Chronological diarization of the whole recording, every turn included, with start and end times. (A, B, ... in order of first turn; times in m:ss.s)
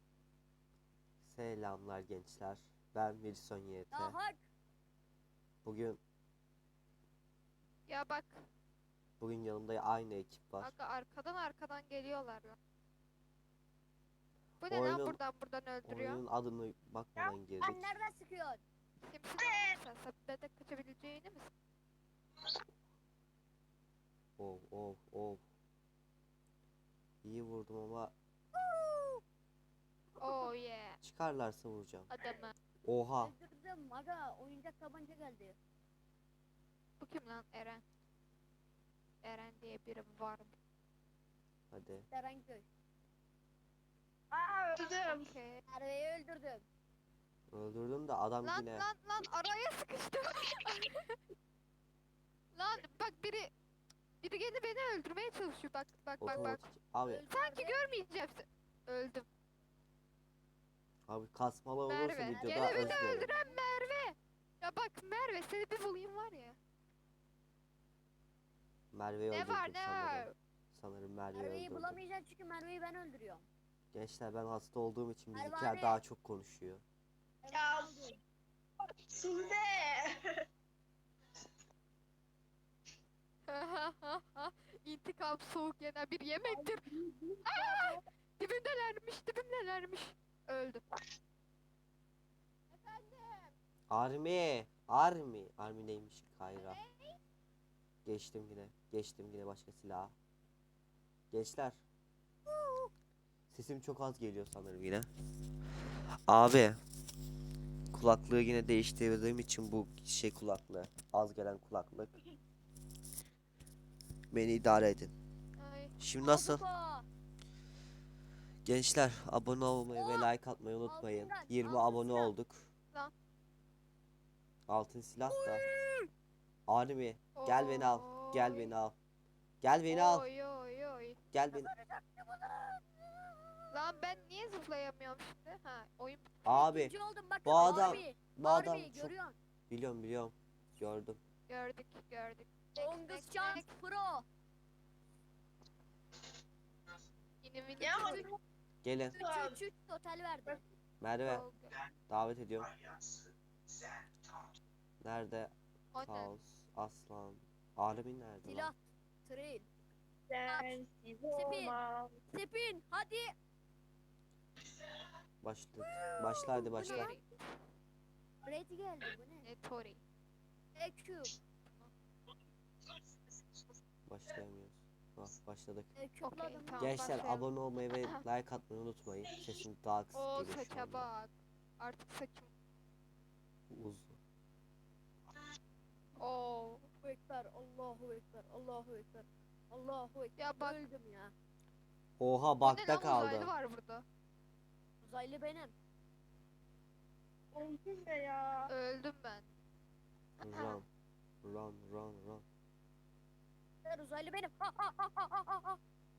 0:01.2-0:04.2 A
0:03.9-0:04.4 B
0:05.6-0:06.0 A
0:07.9-0:08.4 C
0:09.2-0:10.7 A
0:10.6-0:12.6 C
0:14.6-0:16.2 C
0:14.7-0:15.2 A
0:15.8-0:17.8 A
0:17.6-0:18.6 B
0:19.0-0:21.5 C
0:19.4-0:19.8 D
0:24.4-0:25.4 A
0:27.2-0:28.1 A
0:28.5-0:29.2 B
0:30.2-0:31.0 C
0:31.0-0:32.1 A
0:32.1-0:32.5 C
0:32.8-0:33.3 A
0:33.2-0:35.6 B
0:37.0-0:37.8 C
0:39.2-0:40.6 C
0:41.7-0:42.1 A
0:42.1-0:42.7 B
0:44.3-0:45.3 D
0:45.0-0:45.6 C
0:45.7-0:46.6 B
0:47.5-0:48.8 A
0:48.4-0:51.2 C
0:52.5-0:53.5 C
0:54.2-0:56.6 C
0:56.2-0:57.2 A
0:56.2-0:56.5 B
0:57.0-0:57.9 B
0:57.3-0:59.3 C
1:01.1-1:03.3 A
1:01.9-1:06.6 C
1:02.4-1:03.6 B
1:08.9-1:12.0 A
1:09.3-1:10.3 C
1:11.3-1:13.4 B
1:13.9-1:16.8 A
1:15.3-1:16.0 B
1:17.4-1:18.2 B
1:17.5-1:18.2 D
1:18.8-1:20.4 D
1:23.5-1:26.9 C
1:26.4-1:28.0 D
1:27.4-1:30.8 C
1:32.7-1:33.5 D
1:33.9-1:36.8 A
1:38.0-1:40.1 A
1:41.3-1:41.8 A
1:42.5-1:42.9 B
1:43.5-1:45.1 A
1:46.3-1:46.8 A
1:47.9-1:52.1 A
1:54.3-1:55.1 A
1:55.6-1:55.9 C
1:56.0-1:56.6 A
1:56.2-1:57.1 B
1:58.6-2:02.7 A
1:59.9-2:00.3 B
2:00.8-2:02.3 B
2:04.7-2:05.6 A
2:05.3-2:06.1 B
2:06.7-2:08.9 A
2:07.3-2:08.7 C
2:09.6-2:10.3 A
2:09.9-2:11.2 C
2:11.3-2:11.7 A
2:11.5-2:14.0 B
2:13.7-2:16.3 C
2:16.4-2:16.9 A
2:16.5-2:19.4 B
2:17.4-2:19.1 A
2:17.6-2:18.0 D
2:19.7-2:21.2 A
2:21.5-2:23.7 C
2:22.7-2:24.2 B
2:27.4-2:28.3 C
2:27.8-2:28.4 D
2:28.8-2:29.2 A
2:29.1-2:30.7 B
2:29.1-2:29.6 D
2:31.0-2:31.4 A
2:31.2-2:31.7 C
2:32.1-2:32.7 A
2:32.7-2:33.2 D
2:33.7-2:34.5 D
2:35.0-2:38.7 A
2:35.9-2:36.3 C
2:38.4-2:39.7 B
2:40.3-2:42.2 D
2:40.5-2:40.8 B
2:41.3-2:41.8 B
2:42.3-2:43.3 B
2:45.4-2:47.1 A
2:45.8-2:47.1 B
2:46.8-2:47.2 C
2:48.4-2:49.5 B
2:49.4-2:50.0 C
2:50.8-2:51.3 B
2:51.6-2:51.9 C
2:54.0-2:55.9 A
2:56.0-2:57.2 B
2:56.2-2:57.4 C
2:56.8-3:01.1 A
2:59.3-2:59.5 D
3:00.1-3:02.5 C
3:03.7-3:04.2 A
3:06.2-3:06.9 C
3:07.0-3:11.3 B
3:10.4-3:10.8 C
3:12.2-3:13.5 A
3:12.6-3:14.0 C
3:15.0-3:15.7 B
3:17.5-3:18.7 D
3:18.7-3:19.4 C
3:20.4-3:20.8 A
3:20.4-3:20.8 C
3:21.4-3:22.4 A
3:23.8-3:25.8 B